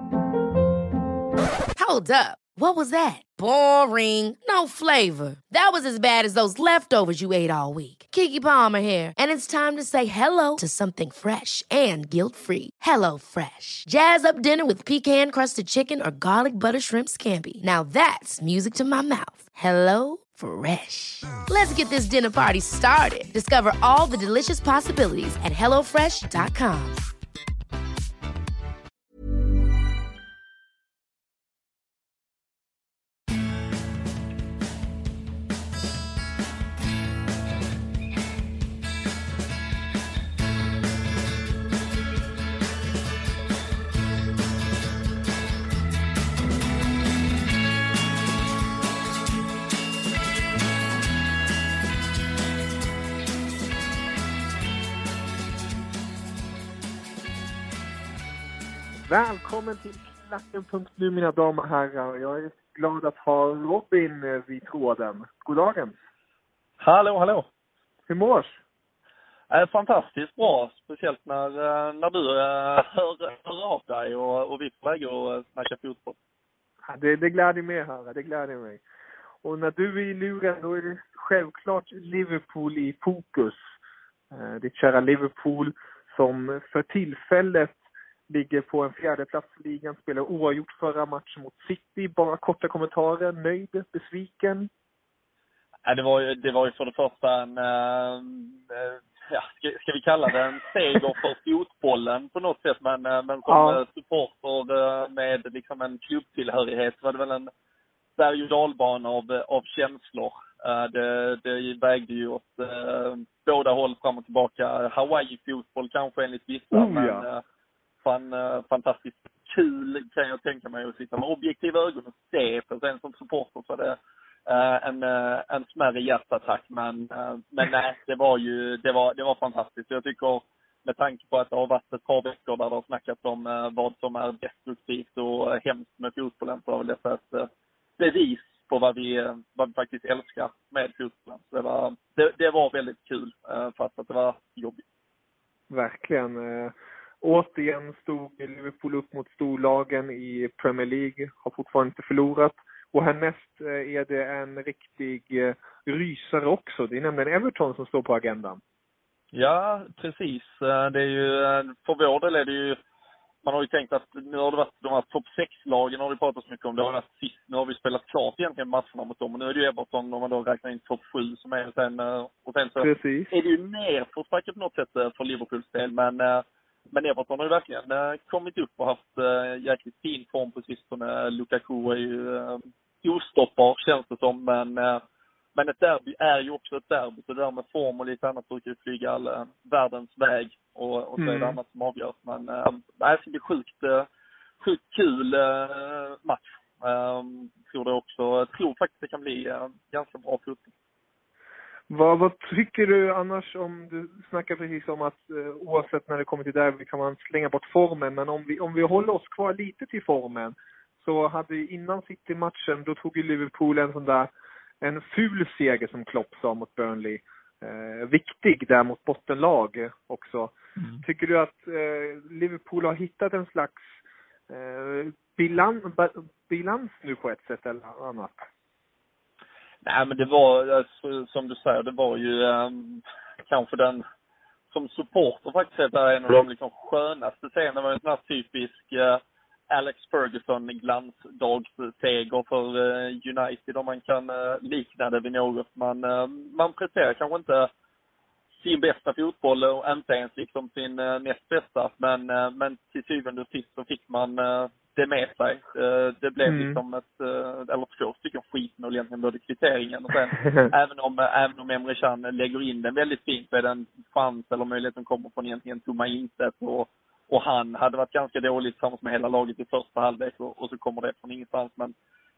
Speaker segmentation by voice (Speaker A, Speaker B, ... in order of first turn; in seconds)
Speaker A: 1.8-27.0
Speaker B: 59.1-66.0, 68.1-68.6, 76.9-78.8, 79.4-83.6, 84.3-87.8, 88.3-94.7, 103.5-103.8, 116.7-117.3, 145.7-158.6, 172.8-173.3, 191.2-191.6, 201.9-214.3, 214.8-223.8, 224.5-228.4, 256.4-256.8
Speaker C: 66.8-67.5, 69.5-76.2, 95.8-107.5, 108.2-117.4, 118.0-144.8, 159.3-162.8, 163.4-185.0, 185.5-194.1, 194.6-200.7, 220.8-221.0, 229.8-234.0, 234.7-247.7, 248.6-271.9